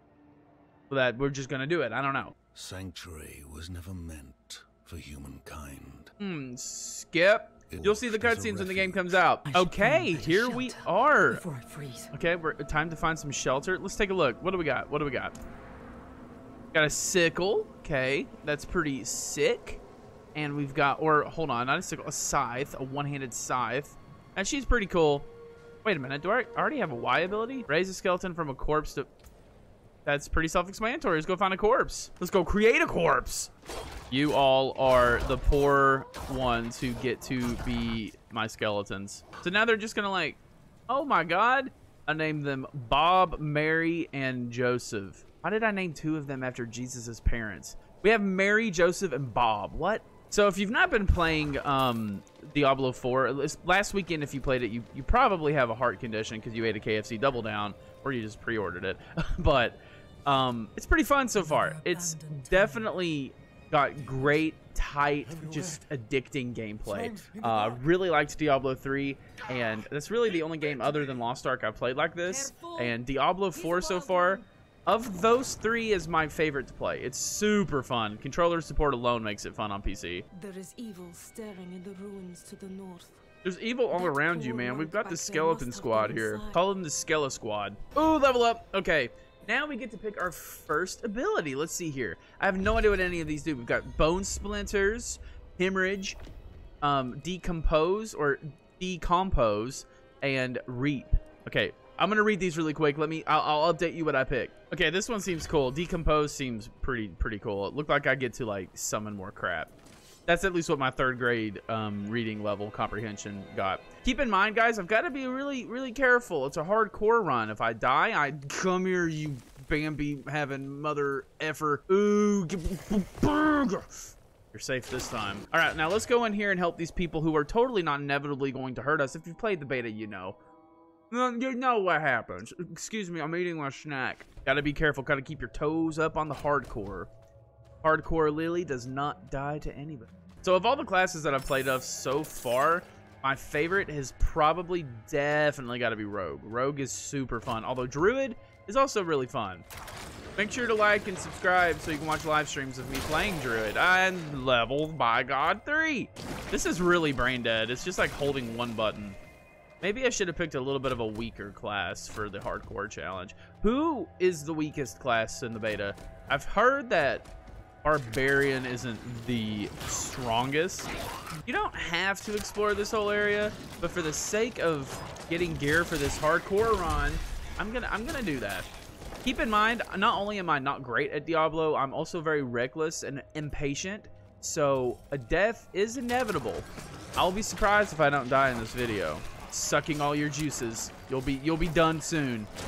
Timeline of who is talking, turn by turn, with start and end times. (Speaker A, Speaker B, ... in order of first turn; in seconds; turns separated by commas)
Speaker A: 0.9-2.3, Speaker B: 2.5-6.1, Speaker A: 6.2-11.4, Speaker B: 7.7-9.2, Speaker C: 9.5-12.1, Speaker A: 12.1-15.4, Speaker A: 16.7-19.8, Speaker A: 20.3-25.3, Speaker A: 25.8-29.1, Speaker A: 30.0-33.5, Speaker A: 34.1-80.2, Speaker C: 61.4-62.9, Speaker C: 72.3-72.9, Speaker C: 73.7-74.4, Speaker C: 80.3-83.2, Speaker A: 83.4-96.2, Speaker C: 83.9-86.5, Speaker A: 96.8-109.7, Speaker A: 110.3-130.4, Speaker A: 131.1-137.1, Speaker A: 137.8-149.6, Speaker A: 150.4-159.2, Speaker A: 159.8-167.3, Speaker A: 167.8-170.9, Speaker A: 171.4-178.7, Speaker A: 179.2-192.5